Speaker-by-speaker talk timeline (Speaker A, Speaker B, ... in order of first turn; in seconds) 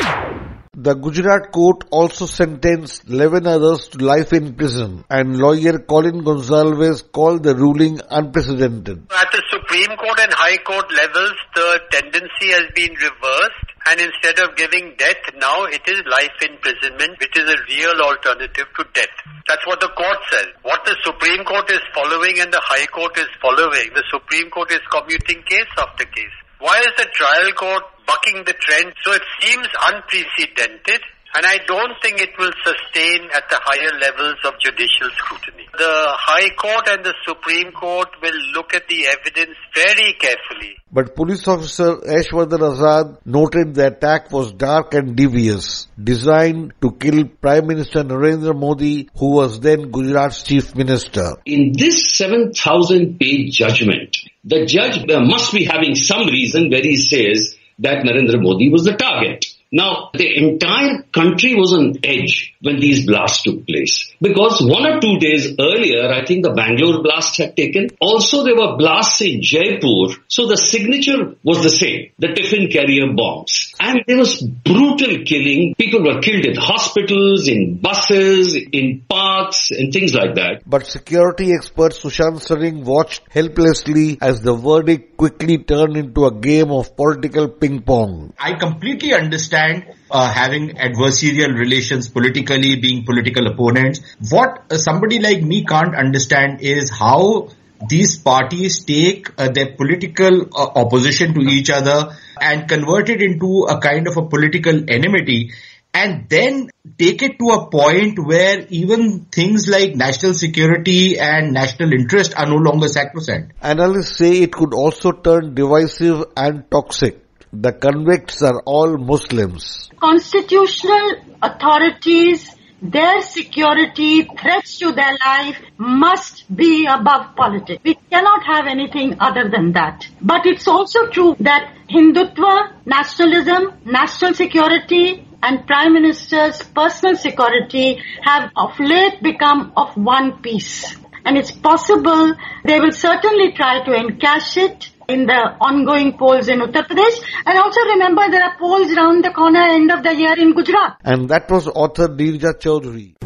Speaker A: 0.8-9.0, 40.9-51.4, 80.7-88.3, 113.6-119.8, 151.0-153.1
Speaker B: 9.1-40.8
Speaker C: 51.5-80.6
Speaker D: 88.4-113.5
Speaker E: 120.0-151.0